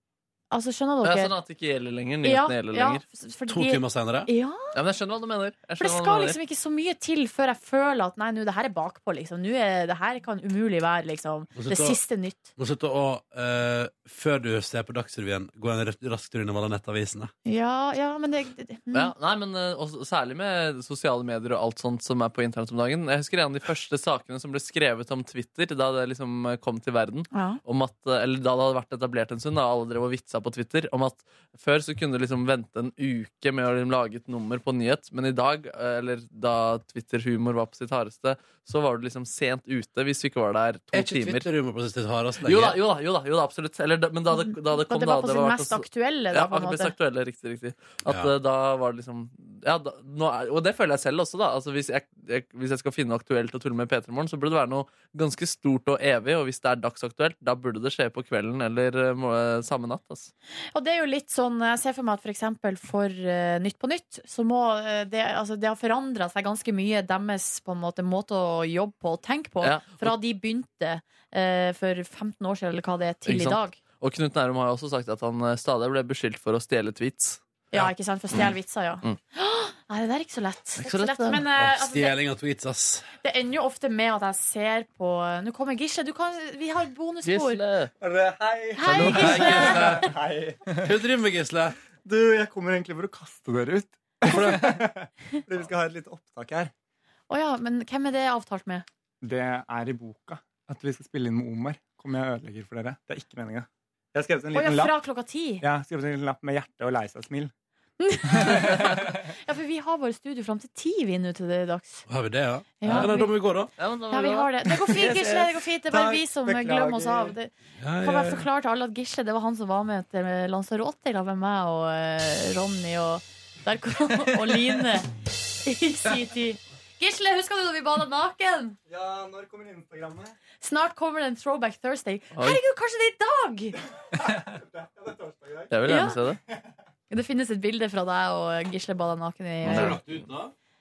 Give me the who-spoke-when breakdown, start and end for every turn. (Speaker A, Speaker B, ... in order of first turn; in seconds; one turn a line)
Speaker A: 0.5-1.3
Speaker B: 1.0-3.0
Speaker A: 2.2-4.8
Speaker C: 3.5-4.3
Speaker B: 4.7-6.4
Speaker A: 5.8-12.5
Speaker C: 11.5-12.0
Speaker C: 12.6-17.3
Speaker A: 17.4-19.1
Speaker B: 18.9-41.5
Speaker A: 27.3-27.6
Speaker C: 40.9-42.8
Speaker B: 42.4-60.3
Speaker A: 44.3-46.9
Speaker C: 48.0-48.3
Speaker A: 60.7-73.8
Speaker B: 69.6-70.1
Speaker B: 73.2-77.4
Speaker A: 77.7-82.2
Speaker B: 80.8-81.5
Speaker C: 81.5-83.1
Speaker A: 83.2-87.6
Speaker B: 87.2-87.9
Speaker D: 88.0-90.9
Speaker A: 88.8-90.1
Speaker B: 88.9-89.3
Speaker C: 89.0-90.0
Speaker C: 90.8-91.8
Speaker D: 92.0-96.7
Speaker A: 97.3-98.8
Speaker D: 99.2-105.0
Speaker A: 104.5-105.6
Speaker D: 105.6-107.5
Speaker A: 108.0-112.0
Speaker D: 108.5-109.1
Speaker C: 112.1-113.7
Speaker A: 112.8-113.3
Speaker B: 113.8-115.6
Speaker A: 114.1-125.1
Speaker D: 115.9-117.3
Speaker C: 117.8-118.4
Speaker A: 125.6-128.8
Speaker D: 128.9-130.3
Speaker A: 130.6-133.8
Speaker B: 132.3-132.6
Speaker D: 134.4-135.8
Speaker B: 135.7-136.4
Speaker A: 135.8-136.2
Speaker A: 137.1-140.0
Speaker B: 139.6-140.0
Speaker C: 139.7-140.5